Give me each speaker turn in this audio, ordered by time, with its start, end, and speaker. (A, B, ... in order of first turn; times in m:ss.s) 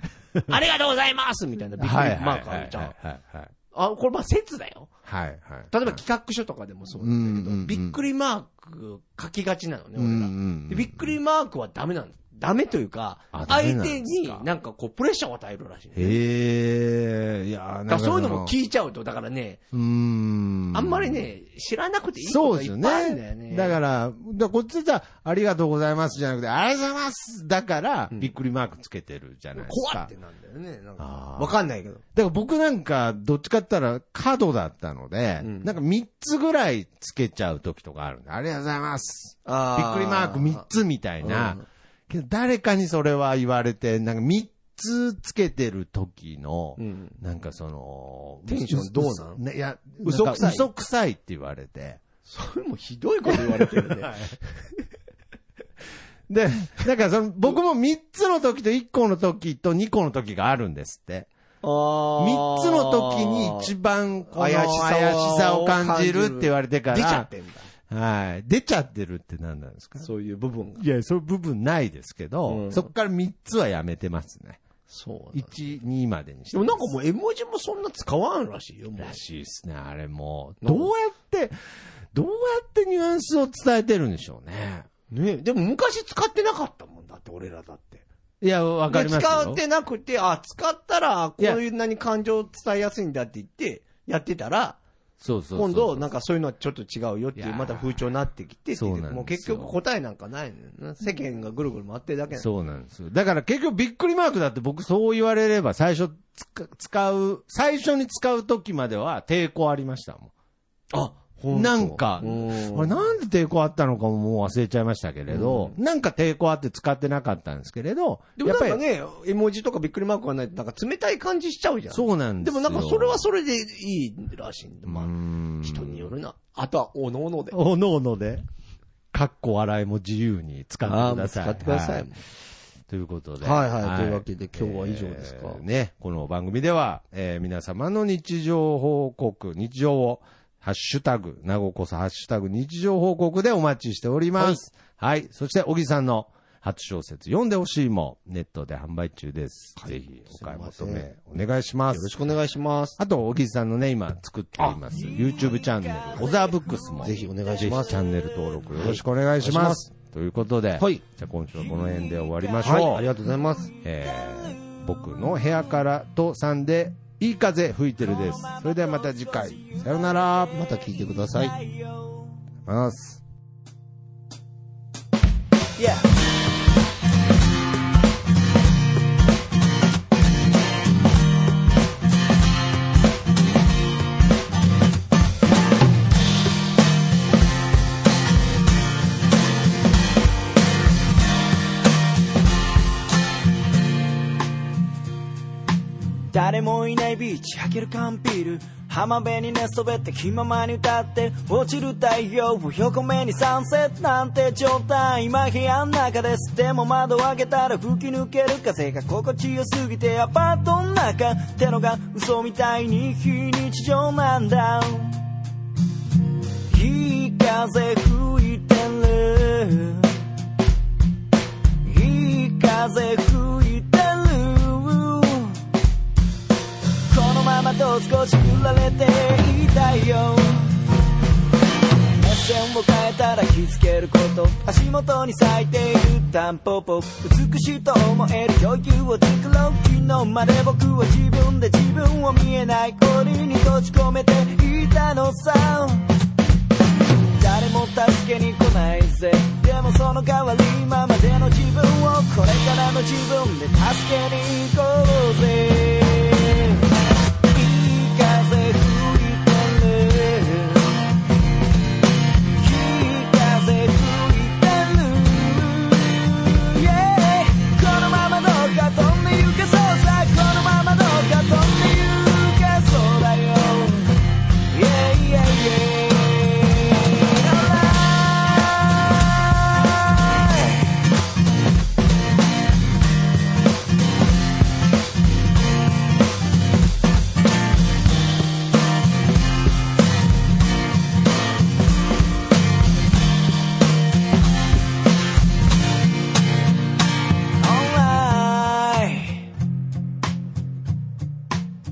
0:00.5-0:02.9 A
0:01.8-0:03.5 B
0:03.7-0:04.9 A
0:05.0-0:06.0 B
0:05.7-0:16.2 A
0:07.0-0:08.0 B
0:10.0-0:11.2 B
0:13.3-0:14.5 B
0:16.0-0:18.5 B
0:17.9-0:19.6 A
0:19.7-0:21.3 B
0:20.7-0:23.8 A
0:22.2-0:30.1 B
0:29.6-0:32.0 A
0:31.0-0:31.6 B
0:32.2-0:52.0 B
0:35.4-0:35.7 A
0:39.5-0:40.7 A
0:41.2-0:41.6 A
0:46.8-0:47.2 A
0:48.5-0:49.4 A
0:50.0-0:50.7 A
0:52.3-0:54.3 A
0:53.3-0:54.4 B
0:56.3-1:01.3 B
1:01.6-1:03.7 A
1:02.2-1:07.3 B
1:04.3-1:07.7 A
1:07.9-1:10.1 B
1:10.0-1:10.8 A
1:10.8-1:14.6 B
1:12.5-1:12.9 A
1:14.9-1:15.6 A
1:15.3-1:16.9 B
1:16.5-1:19.2 A
1:19.0-1:21.5 B
1:20.6-1:20.9 A
1:22.1-1:24.9 B
1:25.1-1:28.0 A
1:28.4-1:29.6 B
1:28.9-1:34.8 A
1:35.2-1:36.1 B
1:35.6-1:42.5 A
1:37.4-1:38.0 B
1:38.8-1:39.8 B
1:42.4-1:50.3 B
1:50.9-1:53.1 A
1:51.5-1:58.8 B
1:55.3-1:55.8 A
1:58.4-2:07.6 A
2:01.9-2:03.2 B
2:04.9-2:06.1 B
2:07.5-2:08.4 B
2:09.1-2:12.2 B
2:10.8-2:12.2 A
2:12.9-2:32.1 B
2:13.4-2:15.6 A
2:29.8-2:31.1 A
2:31.9-2:33.0 A
2:33.0-2:43.1 B
2:34.9-2:38.7 C
2:37.0-2:38.0 A
2:38.8-2:39.9 A
2:40.8-2:41.0 A
2:41.6-2:44.8 C
2:42.6-2:43.7 A
2:43.8-2:50.6 B
2:48.0-2:52.4 C
2:50.5-2:51.6 A
2:52.6-2:53.2 B
2:55.8-2:56.1 C
3:16.3-3:35.2 C
3:36.7-3:40.2 C
3:41.8-3:45.6 C
3:47.1-3:50.8 C
3:52.2-4:06.1 C
4:07.4-4:16.9 C
4:17.5-4:21.1 C
4:22.5-4:40.9 C
4:57.6-4:59.5 C